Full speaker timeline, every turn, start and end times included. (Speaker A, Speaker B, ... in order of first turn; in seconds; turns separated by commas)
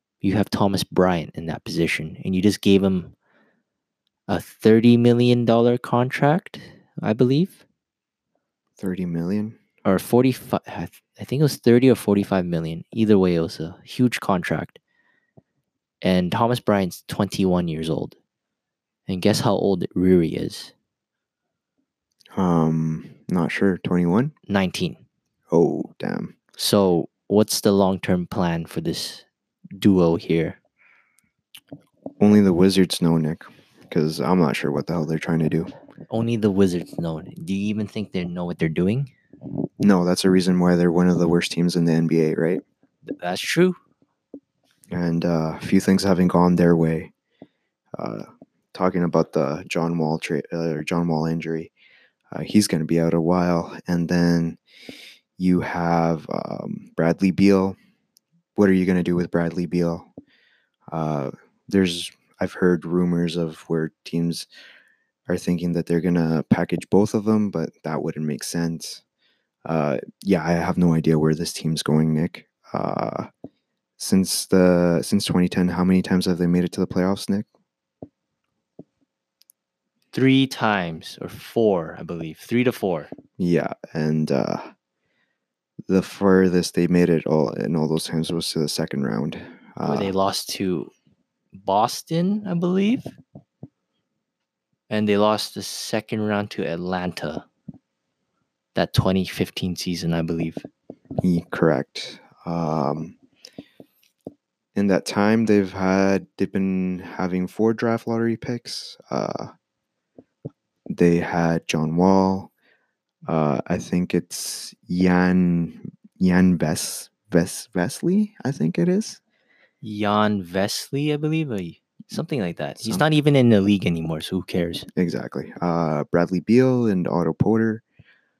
Speaker A: 0.2-3.1, Speaker A: 4.3-7.6, Speaker B: 8.8-9.6, Speaker A: 9.8-14.8, Speaker A: 16.0-18.1, Speaker A: 19.1-20.7, Speaker B: 22.4-24.3, Speaker A: 24.5-25.0, Speaker B: 25.5-26.3, Speaker A: 26.6-29.2, Speaker A: 29.8-30.6, Speaker B: 32.2-35.7, Speaker A: 36.1-39.1, Speaker B: 39.8-42.6, Speaker A: 43.2-43.8, Speaker B: 44.9-47.1, Speaker B: 47.9-51.7, Speaker B: 52.3-54.6, Speaker B: 55.4-57.8, Speaker B: 58.5-60.1, Speaker B: 60.9-64.5, Speaker B: 65.3-69.0, Speaker B: 69.6-73.3, Speaker B: 74.0-77.5, Speaker A: 80.1-83.1, Speaker B: 83.4-84.7, Speaker B: 85.9-90.1, Speaker A: 89.8-90.9, Speaker A: 91.5-93.2, Speaker A: 94.9-97.5, Speaker A: 98.7-100.7, Speaker B: 101.2-103.2, Speaker B: 104.7-109.5, Speaker B: 110.9-112.5, Speaker B: 113.2-119.2, Speaker A: 119.8-124.9, Speaker B: 124.9-127.8